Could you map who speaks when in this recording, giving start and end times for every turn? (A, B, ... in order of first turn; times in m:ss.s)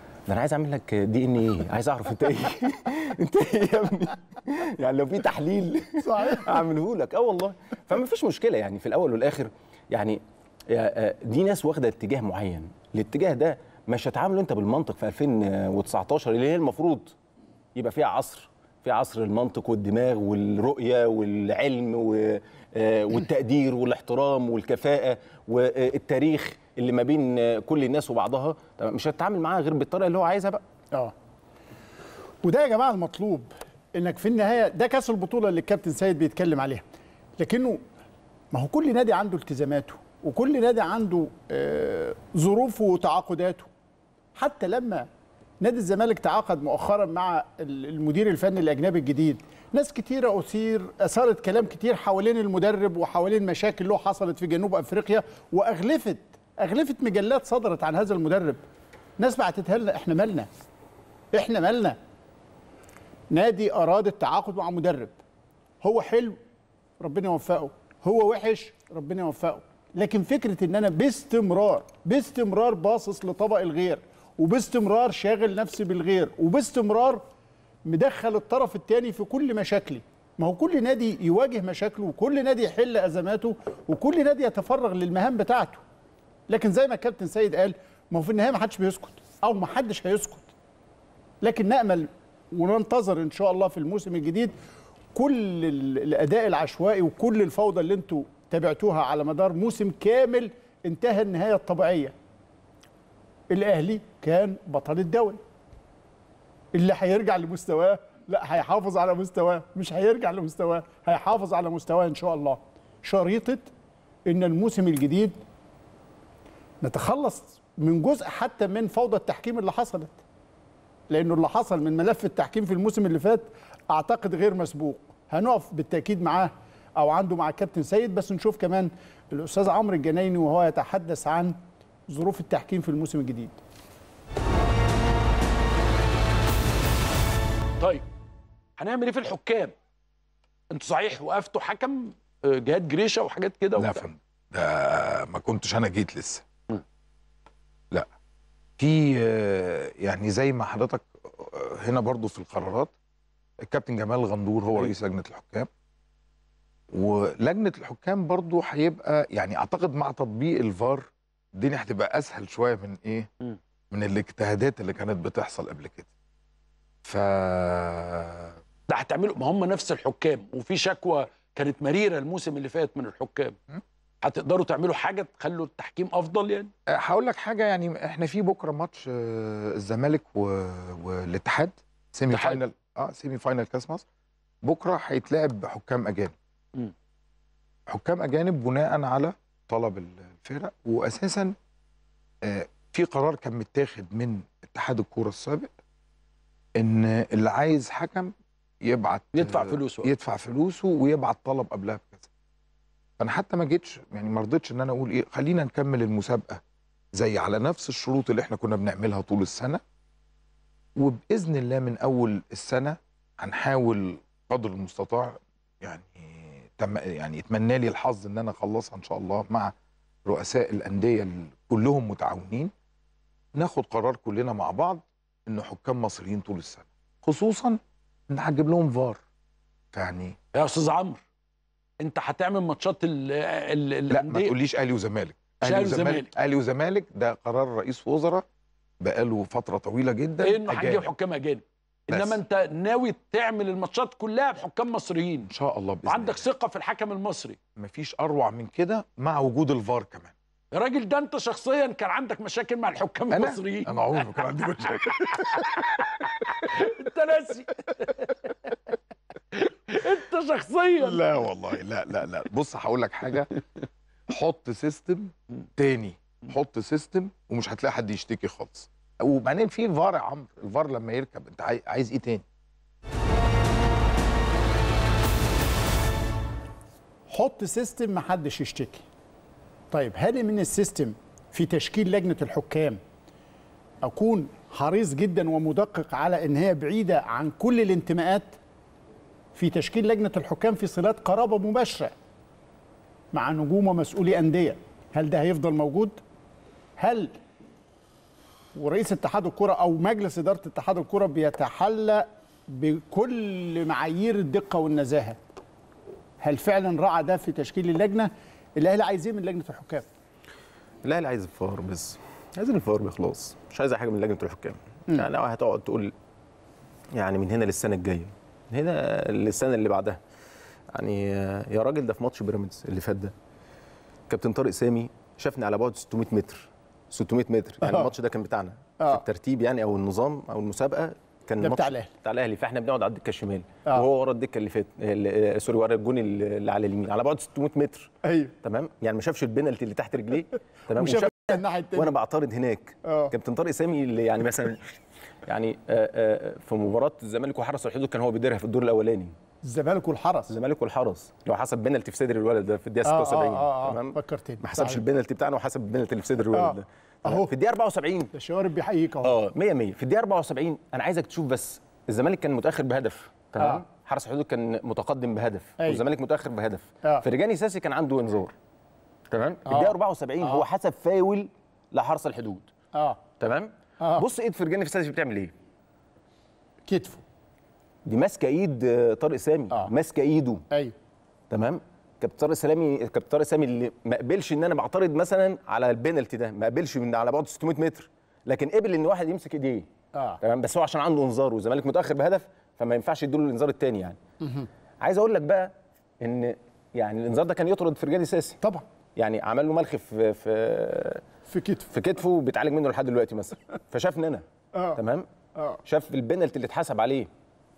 0:00.3-0:17.1 A
0:06.0-0:06.6 B
0:17.7-0:30.6 A
0:32.4-0:36.8 B
0:37.4-0:37.8 B
0:38.5-0:43.7 B
0:44.4-0:45.1 B
0:45.6-0:58.6 B
0:59.2-1:00.5 B
1:01.3-1:02.0 B
1:03.3-1:05.2 B
1:05.8-1:06.4 B
1:07.0-1:17.2 B
1:17.8-1:25.8 B
1:26.5-1:30.5 B
1:31.4-1:34.5 B
1:35.1-1:42.1 B
1:43.5-1:45.4 B
1:46.7-1:53.7 B
1:54.2-1:55.4 B
1:56.8-2:00.2 B
2:01.1-2:11.6 B
2:12.1-2:13.6 B
2:18.8-2:19.7 C
2:20.7-2:24.0 C
2:23.8-2:26.5 D
2:28.8-2:32.9 D
2:33.6-2:35.7 D
2:36.9-2:43.3 D
2:43.9-2:46.1 D
2:47.0-2:48.5 D
2:48.9-2:53.6 C
2:54.2-2:56.7 C
2:56.9-3:04.0 D
3:02.3-3:02.6 C
3:04.6-3:06.3 D
3:07.9-3:11.5 D
3:12.4-3:15.7 D
3:16.8-3:18.3 D
3:18.8-3:22.3 D
3:19.3-3:20.1 C
3:23.2-3:26.6 D
3:27.1-3:29.8 D
3:31.0-3:39.7 D
3:40.2-3:42.7 D
3:43.5-3:49.2 D
3:49.9-3:50.4 D
3:50.5-3:51.2 C
3:52.0-3:54.5 C
3:54.1-3:58.4 D
3:55.6-3:56.3 C
3:59.0-4:01.1 D
4:00.4-4:05.5 C
4:02.1-4:02.4 D
4:05.5-4:06.5 D
4:06.0-4:07.6 C
4:07.8-4:10.3 D
4:10.7-4:15.6 C
4:13.3-4:15.4 D
4:16.8-4:18.2 C
4:19.9-4:21.2 C
4:21.0-4:23.5 D
4:24.3-4:32.4 D
4:37.3-4:39.0 B
4:39.9-4:43.0 B
4:44.0-4:48.6 B
4:49.5-4:52.1 B
4:53.3-4:56.2 B
4:57.0-4:57.3 B
4:58.7-5:05.4 B
5:06.4-5:10.1 B
5:11.0-5:16.1 A
5:17.1-5:20.2 A
5:20.9-5:23.3 A
5:24.3-5:38.1 A
5:31.6-5:32.1 B
5:38.2-5:38.5 B
5:38.6-5:44.9 A
5:41.0-5:42.1 B
5:43.0-5:43.3 B
5:45.4-5:49.3 A
5:49.6-5:50.5 B
5:50.5-5:58.3 A
5:53.0-5:55.0 B
5:56.5-5:57.5 B
5:58.3-5:59.3 B
5:59.2-6:08.5 A
6:09.3-6:12.7 A
6:09.7-6:10.6 B
6:13.4-6:15.5 A
6:16.9-6:17.2 B
6:18.0-6:20.6 A
6:21.5-6:29.9 A
6:30.4-6:34.2 A
6:34.4-6:34.7 B
6:35.0-6:38.6 A
6:39.2-6:41.2 A
6:41.5-6:41.9 B
6:41.9-6:44.4 A
6:45.0-6:45.2 A
6:45.8-6:47.3 A